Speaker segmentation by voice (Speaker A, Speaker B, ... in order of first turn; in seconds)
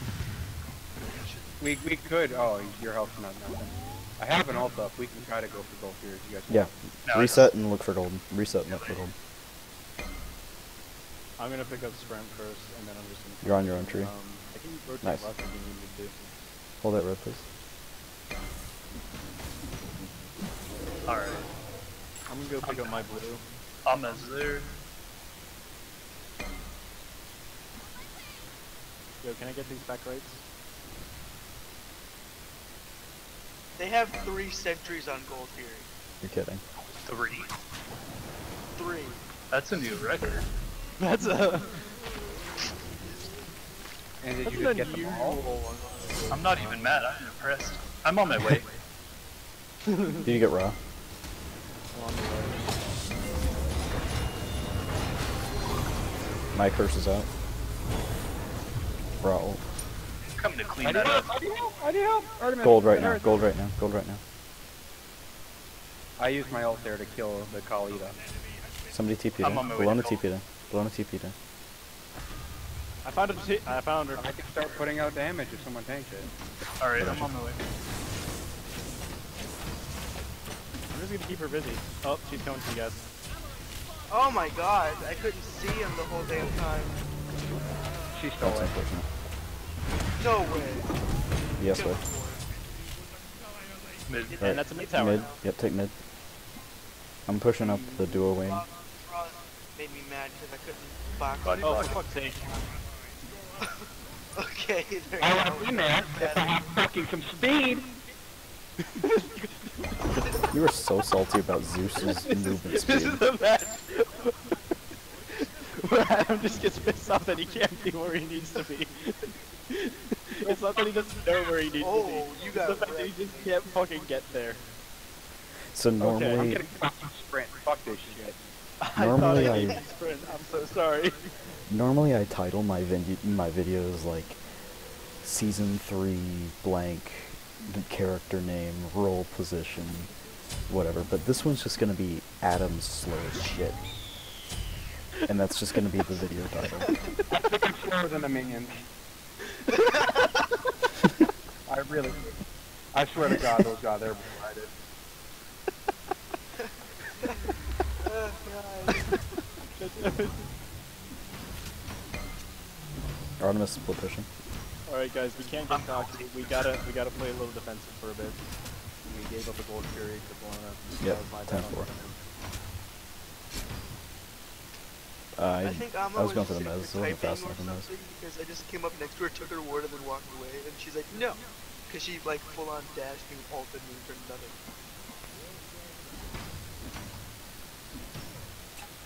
Speaker A: 1.6-6.7, 44.2-45.4, 60.8-63.3, 66.2-68.2, 74.1-76.3, 88.1-88.7, 105.2-107.9, 126.2-128.4, 147.3-148.8, 151.7-152.4, 152.9-154.7
Speaker B: 6.5-9.1, 13.4-14.1, 16.8-17.4, 36.2-36.6, 50.2-50.8, 56.5-57.3, 59.2-59.6, 62.6-64.2, 68.9-71.3, 77.0-77.3, 88.4-89.0, 91.6-92.0, 94.4-95.9, 97.2-98.6, 110.4-113.2, 125.7-126.6, 128.9-129.8, 131.7-134.4, 135.2-140.1, 140.7-143.8, 145.3-147.0, 163.4-164.3, 171.0-171.9, 175.4-177.9
Speaker C: 7.0-7.5, 8.7-9.0, 21.0-21.5, 22.6-22.9, 23.8-24.7, 37.0-37.5, 39.5-40.5, 46.3-48.7, 60.4-61.3, 69.4-70.2, 76.8-77.6, 94.1-94.5, 101.4-102.0, 165.7-166.8
Speaker D: 11.4-16.2, 22.3-23.4, 29.2-30.4, 41.0-41.8, 44.4-47.0, 49.9-50.2, 51.9-52.7, 73.0-74.3, 80.9-83.0, 94.4-95.3, 97.6-98.0, 101.6-102.7, 109.0-109.8, 112.0-114.5, 115.3-124.6, 126.0-126.5, 128.0-131.3, 159.8-160.4, 164.8-168.4, 169.1-172.1
Speaker E: 33.8-35.9, 38.8-39.2, 84.1-87.0, 90.2-90.9, 91.6-92.4, 94.3-95.4, 98.4-101.9, 104.3-106.5, 121.8-123.5, 129.2-129.8, 149.7-150.4, 158.0-159.2, 175.6-184.6